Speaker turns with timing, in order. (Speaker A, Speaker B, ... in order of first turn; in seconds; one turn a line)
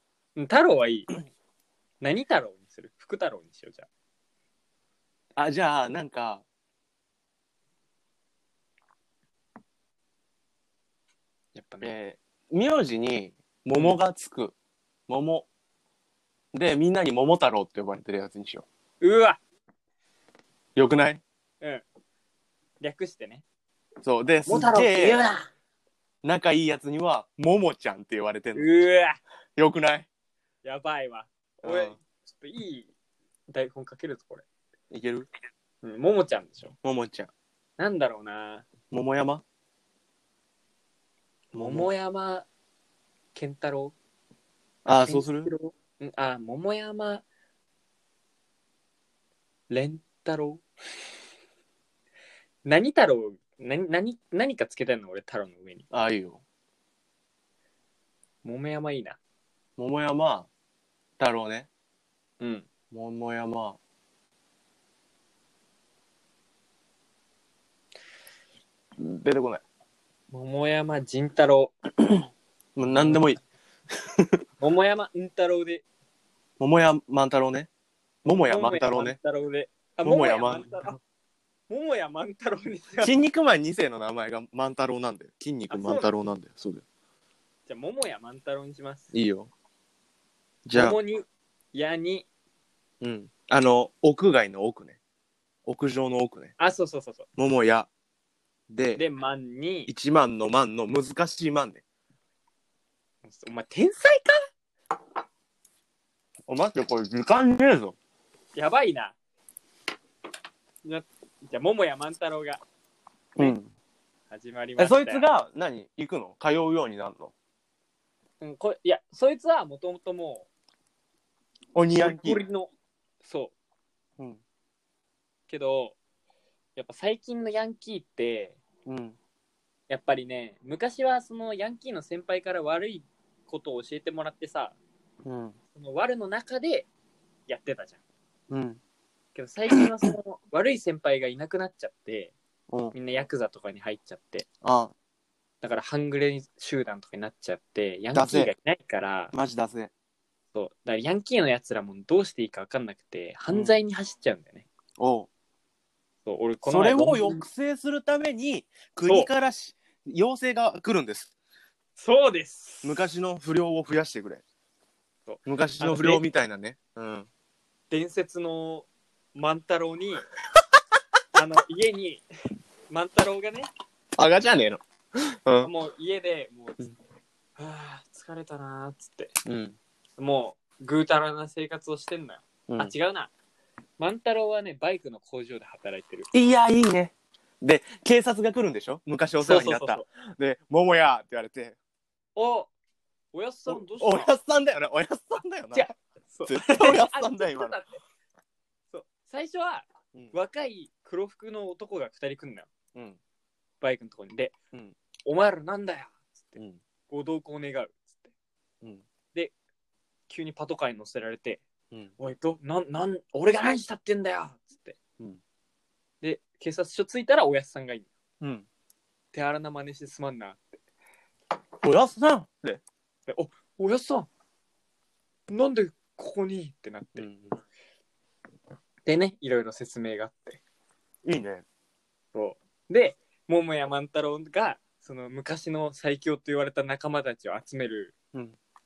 Speaker A: 0.3-1.1
Speaker A: 2.0-3.9
Speaker B: 5.3-6.4
Speaker A: 11.5-11.9
Speaker B: 11.8-14.5
Speaker B: 15.1-15.5
Speaker B: 16.5-18.6
Speaker A: 19.0-19.4
Speaker B: 20.8-21.2
Speaker A: 22.8-23.4
Speaker B: 24.0-25.2
Speaker A: 24.4-25.5
Speaker B: 26.2-28.7
Speaker A: 28.5-29.2
Speaker B: 29.6-30.1
Speaker A: 30.6-32.9
Speaker B: 31.6-31.9
Speaker A: 33.5-34.4
Speaker B: 34.9-35.3
Speaker A: 35.8-36.7
Speaker B: 36.8-37.3
Speaker A: 37.8-38.7
Speaker B: 38.9-39.4
Speaker B: 41.5-41.9
Speaker A: 41.5-42.5
Speaker A: 43.3-43.9
Speaker B: 44.8-45.5
Speaker A: 44.9-47.2
Speaker A: 49.7-50.6
Speaker A: 52.6-55.9
Speaker B: 55.9-56.4
Speaker A: 58.4-59.2
Speaker B: 59.8-60.5
Speaker B: 61.2-61.7
Speaker A: 62.4-62.7
Speaker B: 62.9-63.8
Speaker B: 69.0-69.6
Speaker A: 70.3-71.7
Speaker B: 72.8-73.4
Speaker B: 73.9-74.4
Speaker A: 74.6-75.8
Speaker B: 76.6-77.7
Speaker B: 78.2-79.2
Speaker A: 78.3-81.0
Speaker B: 80.0-80.8
Speaker A: 81.7-83.1
Speaker B: 83.0-86.8
Speaker A: 85.7-86.1
Speaker A: 87.7-89.1
Speaker B: 89.1-89.5
Speaker B: 90.6-91.0
Speaker A: 90.7-92.3
Speaker B: 93.0-95.0
Speaker B: 95.7-96.5
Speaker A: 96.6-97.3
Speaker B: 97.4-97.9
Speaker B: 98.7-99.0
Speaker A: 99.0-99.9
Speaker B: 99.9-101.8
Speaker A: 103.2-104.5
Speaker B: 106.5-108.0
Speaker A: 108.5-109.1
Speaker A: 110.8-112.6
Speaker B: 113.3-113.7
Speaker A: 114.3-115.2
Speaker B: 114.8-117.3
Speaker A: 118.4-120.5
Speaker B: 121.7-122.4
Speaker A: 121.9-122.7
Speaker A: 123.2-123.5
Speaker A: 125.5-126.0
Speaker A: 126.8-128.6
Speaker B: 128.8-129.2
Speaker A: 129.9-134.8
Speaker B: 135.2-135.6
Speaker A: 135.7-136.9
Speaker A: 137.5-138.0
Speaker B: 138.5-138.8
Speaker A: 139.3-142.3
Speaker B: 142.7-142.9
Speaker A: 142.9-144.5
Speaker B: 144.6-144.9
Speaker A: 145.6-149.3
Speaker B: 148.1-148.5
Speaker B: 149.3-149.9
Speaker A: 150.5-154.7
Speaker B: 153.5-153.8
Speaker B: 155.0-155.3
Speaker A: 156.2-157.4
Speaker B: 156.6-161.3
Speaker A: 159.0-159.3
Speaker A: 162.0-163.0
Speaker B: 162.8-164.4
Speaker A: 165.3-166.2
Speaker B: 165.4-167.3
Speaker A: 167.9-170.3
Speaker A: 171.3-172.2
Speaker A: 172.9-173.7
Speaker B: 174.2-175.7
Speaker A: 175.6-176.9
Speaker A: 177.6-179.3
Speaker B: 179.4-179.8
Speaker A: 180.2-183.3
Speaker B: 182.7-182.9
Speaker A: 184.0-186.3
Speaker B: 186.3-191.8
Speaker A: 189.4-190.0
Speaker A: 192.3-192.7
Speaker A: 193.3-194.3
Speaker B: 193.7-195.9
Speaker A: 195.7-198.0
Speaker B: 196.5-197.8
Speaker A: 198.9-202.7
Speaker B: 202.9-203.2
Speaker A: 203.8-204.5
Speaker A: 205.2-206.6
Speaker A: 207.1-208.3
Speaker A: 210.3-211.6
Speaker A: 212.2-214.9
Speaker A: 216.2-218.1
Speaker B: 218.4-218.7
Speaker A: 219.3-220.6
Speaker B: 221.8-222.8
Speaker A: 223.3-224.3
Speaker A: 225.5-227.3
Speaker B: 227.2-227.5
Speaker A: 229.1-230.6
Speaker B: 231.2-231.6
Speaker A: 232.3-238.1